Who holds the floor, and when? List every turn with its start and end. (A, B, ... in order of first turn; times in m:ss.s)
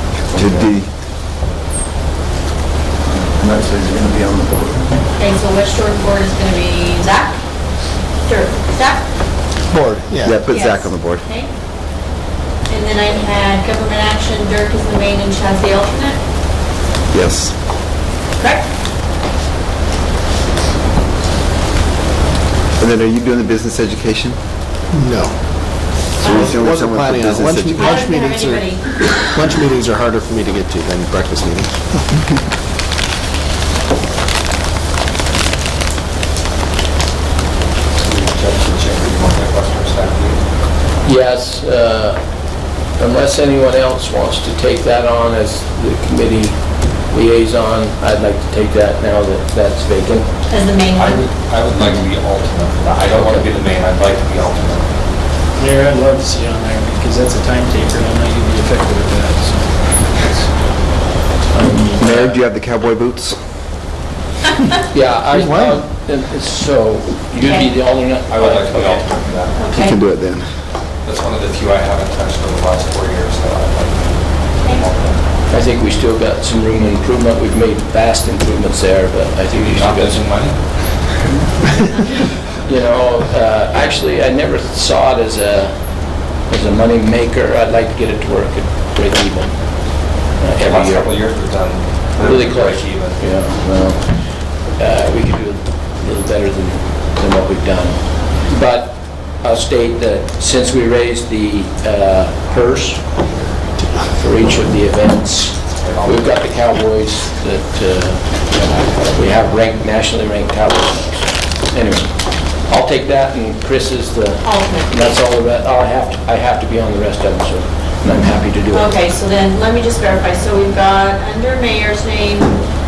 0:00.3-0:00.7 A
0:00.3-0:00.9 B
0:03.1-0:05.0 A
0:05.2-0:07.4 C
0:08.2-0:09.1 C
0:09.7-0:10.4 D
0:10.2-0:11.2 B
0:10.5-0:11.5 C
0:12.7-0:16.2 C
0:17.1-0:17.6 B
0:18.4-0:18.7 C
0:22.8-0:24.4 B
0:24.9-0:32.2 D
0:26.2-0:28.0 B
0:27.7-0:29.3 C
0:38.0-0:40.4 E
0:41.0-0:42.2 F
0:43.0-0:46.6 F
0:47.1-0:50.3 F
0:50.5-0:51.3 C
0:50.9-0:55.0 E
0:53.1-0:53.4 F
0:55.6-1:00.5 G
1:01.5-1:02.4 F
1:01.6-1:01.9 G
1:02.0-1:03.4 B
1:04.9-1:09.1 F
1:05.3-1:05.8 D
1:07.4-1:07.7 C
1:08.3-1:09.6 E
1:09.6-1:10.0 C
1:09.7-1:10.5 B
1:11.0-1:15.2 E
1:15.5-1:20.2 F
1:19.5-1:20.6 E
1:22.6-1:25.7 F
1:26.5-1:29.6 F
1:30.4-1:31.1 F
1:30.6-1:33.2 E
1:32.2-1:34.2 F
1:34.8-1:43.0 F
1:44.1-1:52.1 F
1:45.8-1:46.4 E
1:52.6-1:58.9 F
1:54.4-1:55.2 C
1:58.7-2:02.6 C